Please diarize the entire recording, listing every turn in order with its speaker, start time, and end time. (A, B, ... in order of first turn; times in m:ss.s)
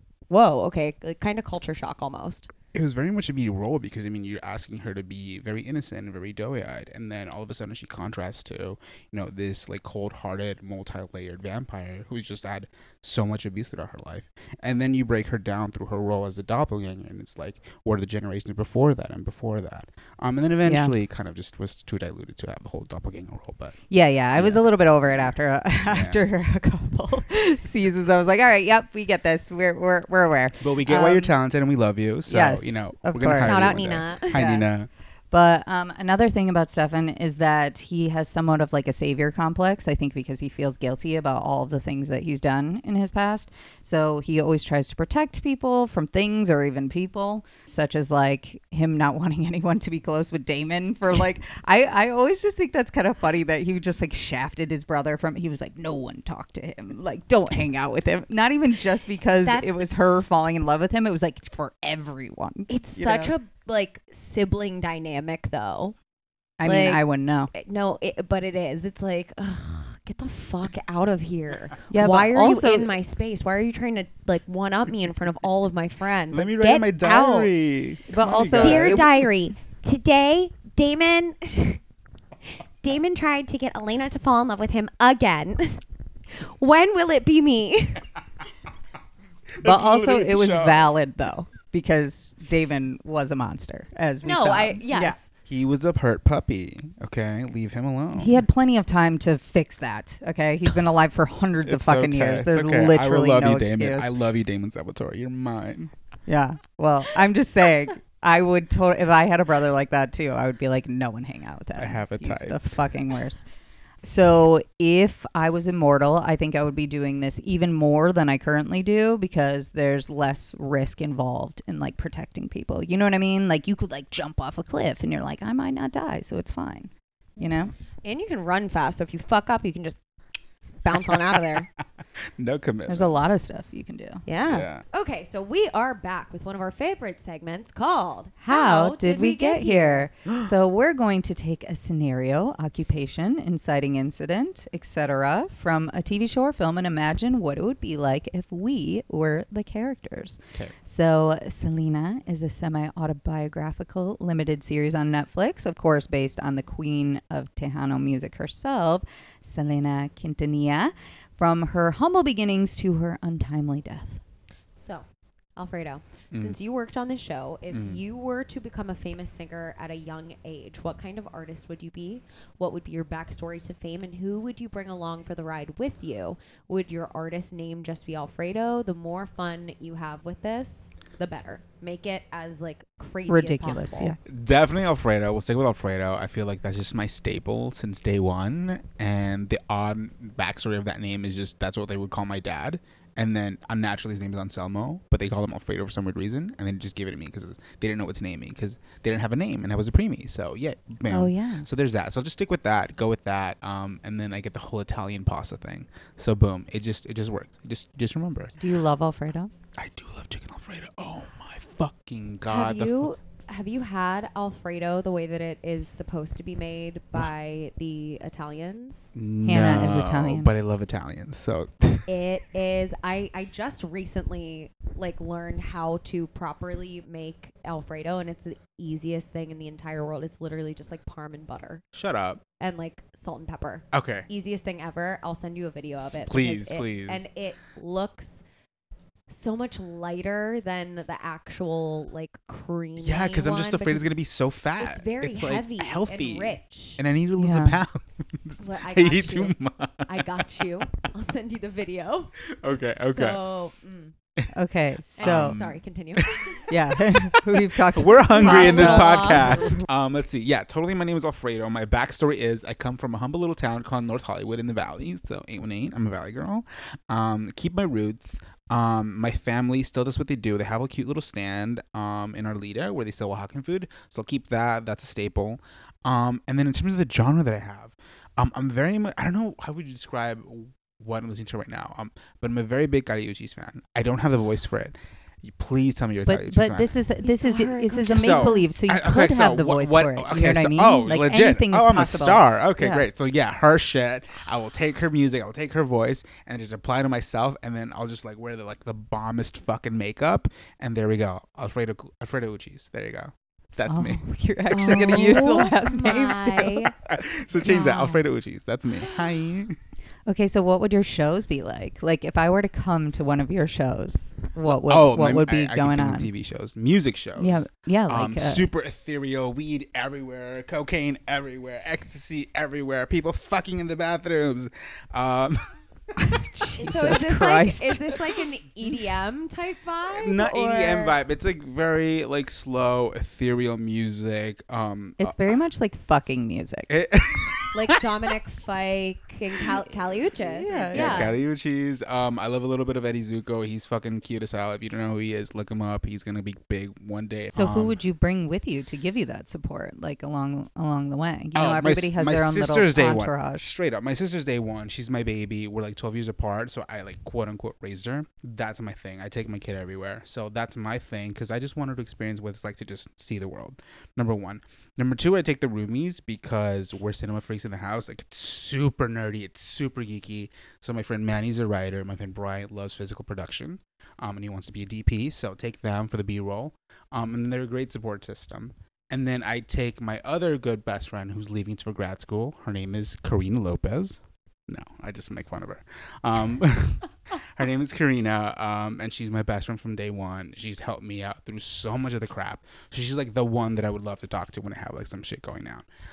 0:00.3-0:02.5 A
0:02.7-0:23.8 B
0:20.6-0:20.9 C
0:23.9-0:31.3 C
0:24.4-0:24.6 B
0:25.9-0:26.2 B
0:30.6-0:34.9 B
0:32.3-0:33.7 C
0:33.4-0:34.4 A
0:34.3-0:34.7 C
0:35.3-1:03.3 C
0:59.4-0:59.9 A
1:02.7-1:06.0 A
1:06.6-1:07.5 C
1:06.6-1:17.5 A
1:11.9-1:12.9 C
1:16.3-1:19.1 B
1:18.1-1:19.1 C
1:18.6-1:21.8 A
1:22.8-1:28.0 A
1:29.5-1:30.9 B
1:29.6-1:35.2 C
1:34.2-1:35.3 A
1:35.5-1:38.4 B
1:38.2-1:44.1 C
1:41.6-1:45.9 B
1:46.3-1:53.4 C
1:51.8-1:52.9 B
1:54.0-2:07.7 C
2:08.0-2:10.0 A
2:10.8-2:11.7 A
2:11.2-2:13.2 B
2:12.9-2:14.2 C
2:14.3-2:20.1 A
2:14.5-2:14.8 B
2:18.5-2:44.2 C
2:44.8-2:45.0 A
2:45.6-3:04.2 A
2:47.7-2:48.0 B
3:03.3-3:04.2 C
3:04.3-3:28.5 B
3:21.1-3:21.7 C
3:28.6-3:29.5 C
3:29.8-3:33.1 B
3:32.5-3:39.1 A
3:39.2-3:42.1 B
3:39.4-3:40.5 C
3:42.1-3:51.8 A
3:51.9-3:52.4 B
3:52.6-3:58.4 A
3:53.9-3:54.3 B
3:56.0-3:57.2 B
3:59.3-4:04.1 A
4:03.0-4:10.8 B
4:04.8-4:07.0 A
4:07.4-4:07.8 C
4:08.6-4:14.1 A
4:12.5-4:13.4 B
4:14.5-4:15.6 C
4:15.2-4:16.7 A
4:15.2-4:16.5 B
4:16.7-4:19.8 C
4:17.1-4:46.9 B
4:18.3-4:19.8 A
4:46.3-4:53.1 C
4:47.2-4:48.7 A
4:48.1-5:04.2 B
5:03.9-5:06.8 C
5:04.7-5:06.9 A
5:06.9-5:09.8 B
5:07.6-5:08.2 C
5:10.3-5:16.3 C
5:14.7-5:25.7 B
5:17.4-5:18.7 C
5:26.2-5:28.1 C
5:26.8-5:31.2 A
5:30.1-5:35.5 B
5:35.2-5:36.9 C
5:36.9-5:38.0 B
5:37.7-5:41.3 A
5:39.6-5:40.2 B
5:40.5-5:41.3 C
5:40.8-5:48.0 B
5:47.5-5:53.7 C
5:51.6-6:35.9 B